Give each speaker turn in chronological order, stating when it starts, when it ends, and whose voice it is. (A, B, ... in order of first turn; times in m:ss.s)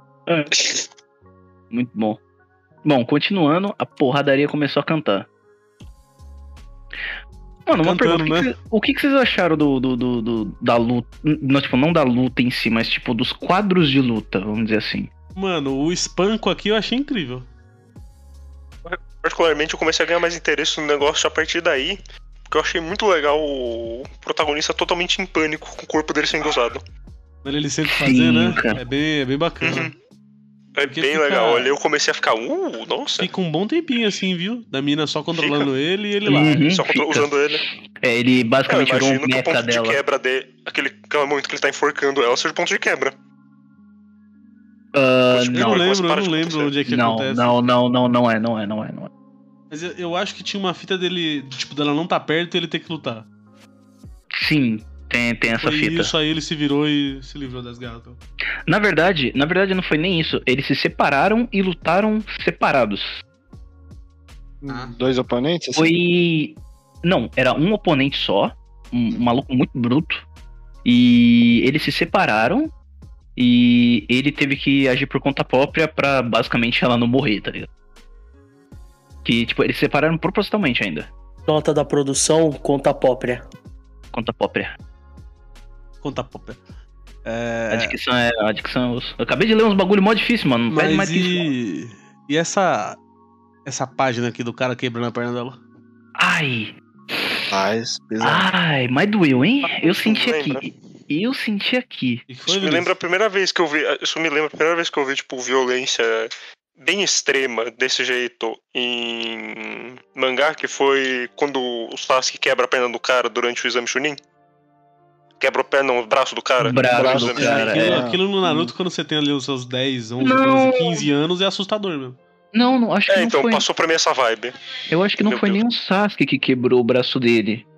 0:00.3-0:00.5 A
0:00.6-0:00.8 B
0:01.7-0:02.2 A
0:02.8-0:05.3 A
0:07.6-0:15.1 A
0:07.8-0:08.5 C
0:15.3-0:17.5 C
0:18.8-0:26.8 B
0:27.4-0:29.9 C
0:27.8-0:28.8 A
0:29.6-0:29.9 B
0:30.8-0:33.3 B
0:30.8-0:31.7 C
0:33.2-0:36.6 C
0:35.4-0:35.7 B
0:36.2-0:40.0 A
0:36.5-0:37.6 B
0:38.7-0:43.1 B
0:44.9-0:45.8 A
0:45.3-0:46.7 B
0:45.5-0:47.5 C
0:46.8-0:49.1 A
0:49.7-0:53.2 C
0:54.3-0:56.1 A
0:55.6-0:58.2 C
0:58.7-1:03.2 A
1:04.6-1:05.9 D
1:04.7-1:05.0 C
1:05.7-1:10.2 A
1:10.8-1:12.7 A
1:13.4-1:17.7 A
1:19.2-1:21.1 A
1:21.4-1:23.4 E
1:24.1-1:24.8 A
1:26.0-1:26.6 C
1:27.2-1:28.0 C
1:27.7-1:31.5 A
1:30.7-1:33.0 C
1:33.6-1:35.6 C
1:36.2-1:37.5 A
1:37.5-1:38.5 D
1:38.2-1:42.2 A
1:39.6-1:40.7 B
1:42.3-1:42.9 C
1:42.5-1:54.2 B
1:55.4-1:57.8 B
1:56.6-1:58.0 A
1:56.9-1:58.7 D
1:57.4-2:02.2 C
2:00.2-2:01.1 A
2:02.5-2:03.6 A
2:03.1-2:04.5 B
2:04.9-2:07.6 A
2:05.2-2:05.6 B